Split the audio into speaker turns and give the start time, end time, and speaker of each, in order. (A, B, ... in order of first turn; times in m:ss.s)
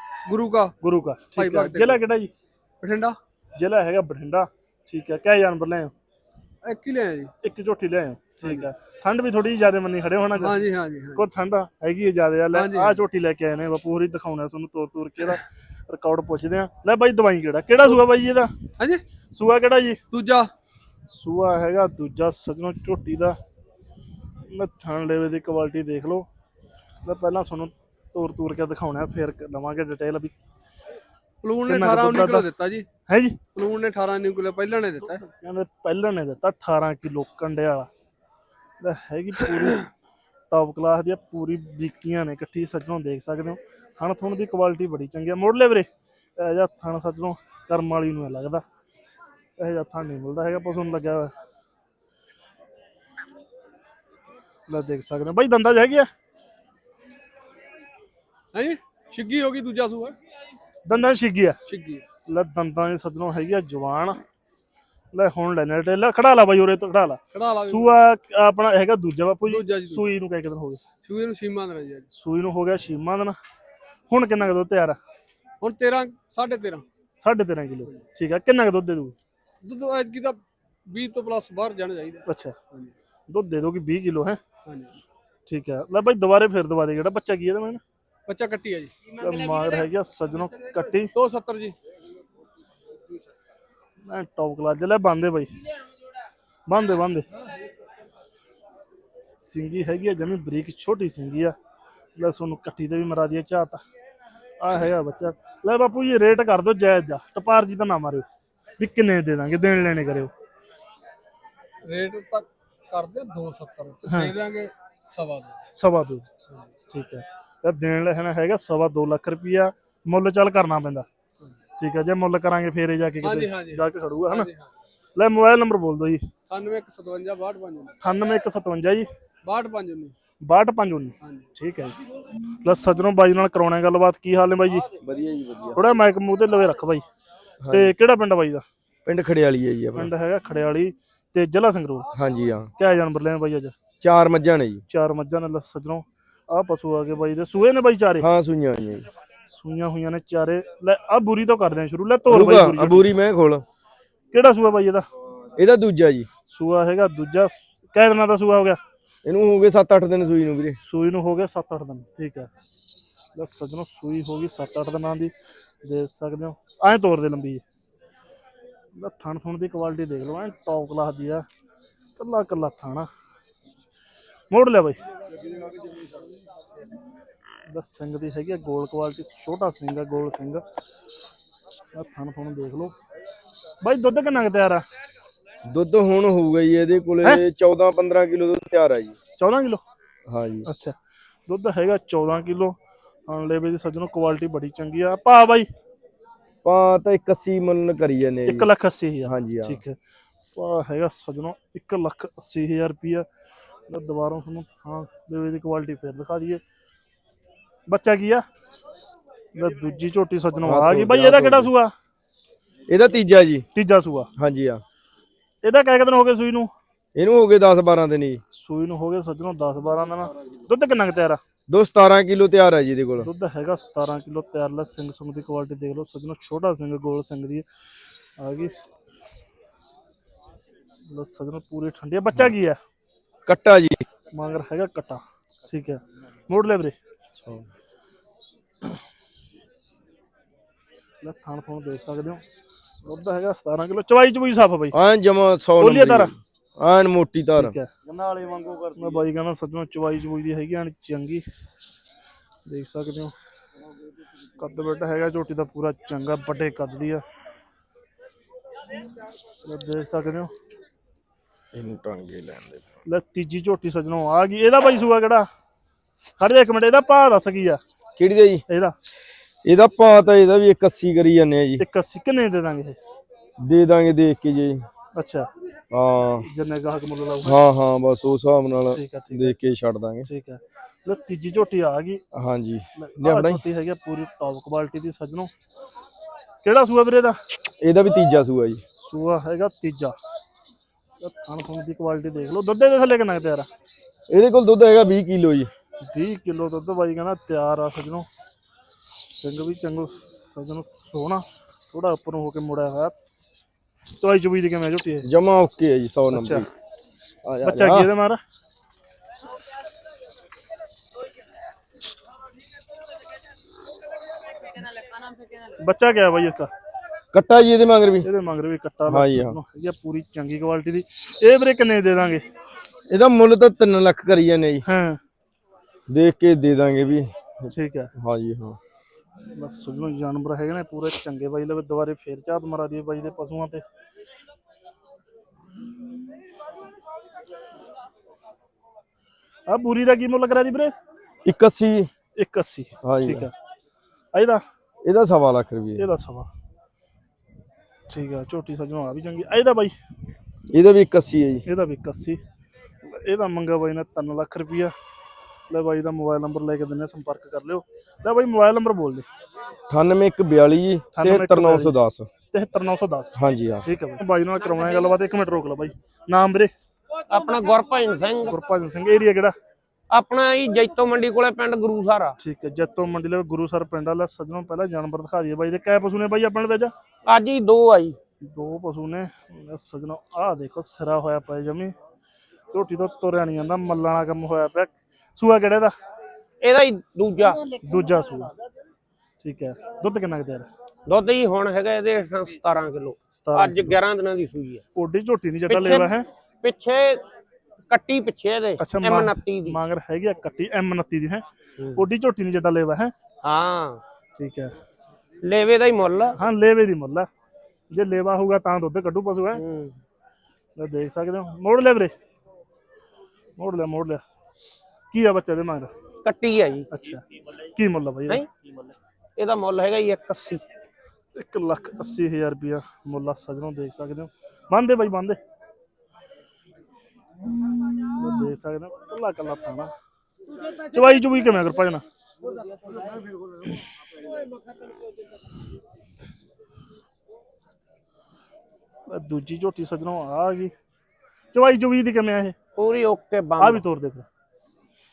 0:00.3-0:00.7 A
0:00.8-0:02.3 B
0:01.3-0:02.0 A
0:02.8-0:03.2 A
0:03.6-0:05.9 B
0:06.6-0:07.3 A
0:07.4-0:10.6 B
0:10.4-0:11.2 A
0:11.1-0:18.5 B
0:12.5-0:13.0 A
0:19.3-0:20.0 B
0:20.1-0:20.5 A
0:21.1-0:23.4 B
0:24.5-0:26.3 B
0:27.0-0:30.3 B
0:31.4-0:32.9 A
0:31.6-0:32.5 B
0:33.1-0:33.4 B
0:33.5-0:35.2 A
0:35.0-0:37.9 B
0:38.8-0:39.9 B
0:40.5-0:48.6 B
0:49.6-0:51.3 B
0:54.7-0:56.1 B
0:58.5-1:00.2 A
1:00.8-1:01.6 B
1:01.6-1:02.0 A
1:02.3-1:04.2 B
1:05.1-1:10.8 B
1:07.3-1:08.0 A
1:09.4-1:10.0 A
1:11.0-1:12.0 A
1:12.1-1:13.4 B
1:14.1-1:15.0 B
1:15.6-1:16.8 A
1:17.2-1:19.1 B
1:19.6-1:22.9 A
1:22.3-1:22.6 B
1:23.3-1:24.4 B
1:24.6-1:24.9 A
1:25.5-1:27.8 B
1:28.3-1:28.9 A
1:29.2-1:31.1 B
1:31.1-1:31.7 A
1:34.0-1:35.5 B
1:36.7-1:37.2 B
1:39.4-1:41.5 B
1:42.2-1:43.8 B
1:44.6-1:48.2 B
1:48.8-1:50.3 B
1:51.9-1:55.6 A
1:54.0-1:54.3 B
1:55.7-1:56.3 B
1:56.9-2:01.0 B
2:01.8-2:04.5 B
2:03.2-2:04.7 A
2:05.2-2:06.2 B
2:06.5-2:07.9 A
2:08.0-2:09.1 B
2:09.4-2:10.1 A
2:10.4-2:11.9 B
2:12.6-2:14.9 B
2:15.0-2:15.8 C
2:15.8-2:17.0 B
2:17.6-2:17.9 C
2:17.7-2:18.6 B
2:19.0-2:20.1 C
2:20.0-2:22.1 B
2:22.1-2:22.7 C
2:22.8-2:23.7 B
2:24.0-2:24.8 C
2:24.9-2:28.2 B
2:28.2-2:29.0 C
2:29.5-2:33.1 B
2:32.3-2:33.6 C
2:34.3-2:35.0 B
2:35.6-2:36.3 C
2:36.5-2:38.8 B
2:39.2-2:40.8 C
2:40.8-2:42.5 B
2:43.4-2:45.3 B
2:45.8-2:47.6 B
2:49.0-2:51.4 B
2:52.2-2:53.1 B
2:54.5-2:55.0 B
2:57.7-3:00.6 B
3:01.9-3:02.9 B
3:03.8-3:04.8 B
3:05.7-3:09.1 C
3:09.4-3:09.8 B
3:10.3-3:10.7 C
3:10.6-3:11.0 B
3:11.5-3:12.8 B
3:13.3-3:15.7 B
3:16.6-3:18.7 C
3:18.4-3:20.0 B
3:19.2-3:19.8 C
3:20.5-3:23.2 B
3:23.9-3:26.6 B
3:27.9-3:28.4 B
3:29.5-3:31.9 B
3:30.6-3:31.7 C
3:32.9-3:33.6 C
3:33.7-3:34.3 B
3:34.4-3:34.8 C
3:35.6-3:36.7 B
3:37.2-3:38.4 C
3:38.5-3:41.4 B
3:41.7-3:43.3 C
3:43.2-3:47.6 B
3:48.4-3:48.7 B
3:51.1-3:52.8 B
3:53.5-3:54.0 C
3:54.3-3:56.9 B
4:01.2-4:02.4 B
4:03.0-4:04.9 B
4:04.9-4:07.8 C
4:05.8-4:06.3 B
4:07.5-4:07.9 B
4:08.9-4:11.4 B
4:12.7-4:13.3 B
4:14.6-4:17.2 B
4:19.6-4:20.5 B
4:21.7-4:22.8 C
4:23.1-4:25.5 B
4:26.4-4:27.8 B
4:28.2-4:28.6 C
4:28.7-4:28.9 B
4:29.6-4:31.8 C
4:31.8-4:33.0 B
4:33.6-4:34.8 C
4:35.2-4:35.5 B
4:35.9-4:36.5 C
4:36.4-4:37.6 B
4:37.4-4:40.3 C
4:38.9-4:39.5 B
4:40.2-4:42.2 B
4:42.3-4:43.6 C
4:43.0-4:45.5 B
4:46.6-4:47.4 B
4:47.8-4:48.8 C
4:49.0-4:50.2 B
4:51.2-4:53.7 B
4:54.3-4:55.7 C
4:56.0-4:58.3 B
4:59.4-5:03.1 B
5:04.1-5:05.2 B
5:05.2-5:06.7 C
5:06.3-5:06.6 B
5:07.4-5:08.1 C
5:07.6-5:08.4 B
5:15.8-5:16.7 B
5:17.3-5:18.2 C
5:18.2-5:22.4 B
5:19.1-5:19.6 C
5:23.1-5:24.8 C
5:24.8-5:25.2 B
5:26.1-5:28.8 C
5:27.7-5:28.1 B
5:29.5-5:33.8 B
5:39.7-5:40.9 B
5:41.4-5:42.1 C
5:42.4-5:43.5 B
5:43.0-5:43.5 C
5:44.3-5:44.6 B
5:45.0-5:46.1 C
5:46.0-5:46.5 B
5:48.1-5:49.9 B
5:50.7-5:51.6 C
5:51.6-5:52.4 B
5:53.0-5:54.9 B
5:55.7-5:59.2 B
5:59.9-6:02.3 C
6:01.1-6:01.9 B
6:02.5-6:06.7 B
6:03.4-6:03.8 C
6:07.3-6:08.6 D
6:08.4-6:09.5 B
6:10.1-6:12.4 D
6:12.4-6:16.9 B
6:17.2-6:18.2 D
6:18.4-6:21.9 B
6:22.7-6:25.9 B
6:26.6-6:27.6 D
6:27.8-6:28.5 B
6:29.4-6:30.7 B
6:31.1-6:34.8 D
6:33.3-6:34.0 B
6:34.9-6:36.2 B
6:35.7-6:36.1 D
6:36.6-6:37.2 D
6:37.9-6:39.8 D
6:38.8-6:41.4 B
6:41.9-6:43.1 B
6:43.4-6:44.0 D
6:44.4-6:44.7 B
6:45.4-6:46.4 D
6:46.4-6:47.3 B
6:47.9-6:49.6 B
6:49.6-6:50.0 D
6:50.8-6:52.1 B
6:53.6-6:54.2 B
6:55.1-6:55.9 B
6:56.2-6:56.8 D
6:56.9-6:57.2 B
6:57.7-6:58.4 B
6:59.4-7:00.6 D
7:01.3-7:05.4 B
7:08.0-7:09.9 B
7:10.9-7:12.0 B
7:19.1-7:20.7 B
7:21.5-7:22.5 B
7:22.8-7:23.8 D
7:23.6-7:24.2 B